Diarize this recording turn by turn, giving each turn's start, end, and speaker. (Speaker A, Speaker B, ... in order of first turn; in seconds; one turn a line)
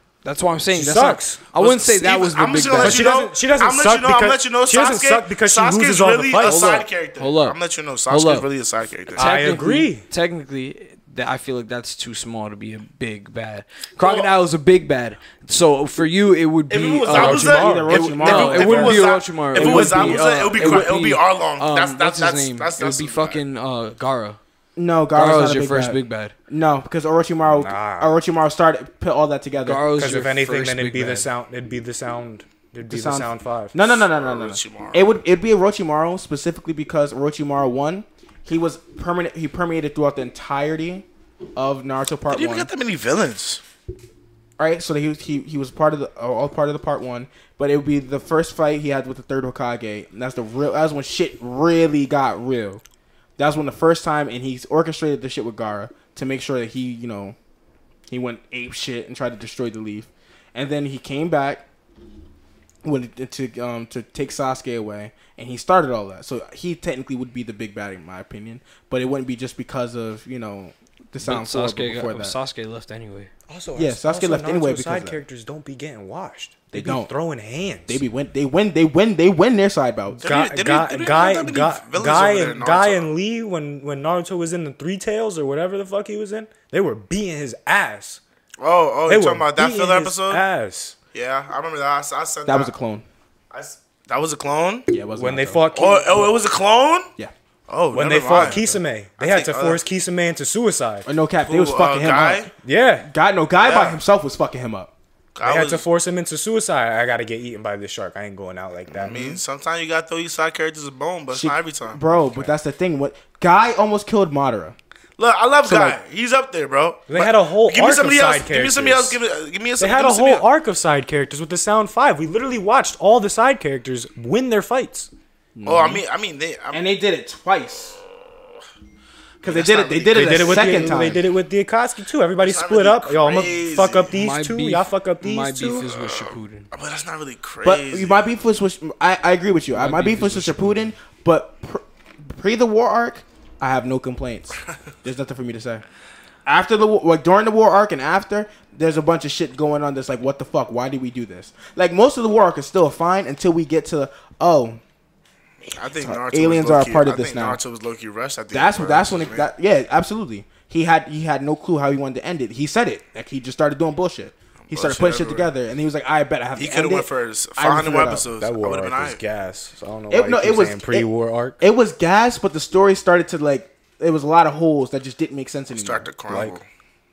Speaker A: 0.2-3.1
Speaker B: 0.7-1.4
Speaker C: 1.6-9.3
Speaker B: 2.7-6.7
Speaker A: 6.4-8.5
Speaker A: 9.1-24.4
Speaker B: 9.2-10.0
Speaker C: 14.0-14.3
Speaker C: 16.7-23.4
Speaker D: 17.1-19.0
Speaker B: 17.1-18.1
Speaker D: 19.5-20.9
Speaker D: 24.8-29.9
Speaker A: 25.1-26.3
Speaker B: 27.5-28.1
Speaker A: 29.6-31.3
Speaker B: 29.9-33.9
Speaker D: 32.9-41.0
Speaker C: 34.1-35.0
Speaker D: 41.5-42.7
Speaker C: 42.3-43.6
Speaker D: 44.6-52.8
Speaker D: 53.4-57.4
Speaker D: 58.1-61.6
Speaker D: 62.8-72.3
Speaker A: 71.2-73.3
Speaker B: 73.5-78.0
Speaker D: 73.8-75.2
Speaker D: 76.7-77.1
Speaker D: 77.9-80.2
Speaker B: 80.2-88.2
Speaker C: 80.2-83.1
Speaker C: 88.6-90.4
Speaker B: 89.1-91.0
Speaker C: 91.1-92.7
Speaker D: 92.5-93.0
Speaker C: 93.5-94.9
Speaker D: 94.9-95.7
Speaker B: 95.2-96.3
Speaker C: 95.7-97.1
Speaker C: 97.7-98.6
Speaker B: 97.9-101.1
Speaker D: 98.3-98.8
Speaker C: 99.2-99.8
Speaker D: 101.0-102.5
Speaker C: 101.4-102.5
Speaker B: 102.6-103.1
Speaker D: 103.0-104.9
Speaker C: 103.6-104.0
Speaker C: 105.3-105.8
Speaker B: 105.4-109.4
Speaker C: 108.9-112.0
Speaker D: 111.3-114.8
Speaker B: 112.1-112.5
Speaker C: 115.2-120.4
Speaker D: 115.6-116.0
Speaker B: 117.1-119.2
Speaker B: 119.8-125.1
Speaker D: 125.5-126.0
Speaker C: 125.7-126.8
Speaker D: 126.7-128.0
Speaker C: 129.4-131.2
Speaker D: 129.4-131.2
Speaker B: 130.1-135.9
Speaker C: 132.4-134.1
Speaker A: 134.1-136.7
Speaker C: 135.9-138.2
Speaker D: 137.6-145.8
Speaker A: 139.7-140.9
Speaker D: 146.4-154.8
Speaker C: 155.6-159.5
Speaker D: 156.0-157.6
Speaker D: 158.5-168.3
Speaker C: 164.7-165.5
Speaker C: 166.6-169.2
Speaker B: 168.3-171.6
Speaker D: 170.1-176.5
Speaker C: 175.7-176.6
Speaker B: 176.3-176.6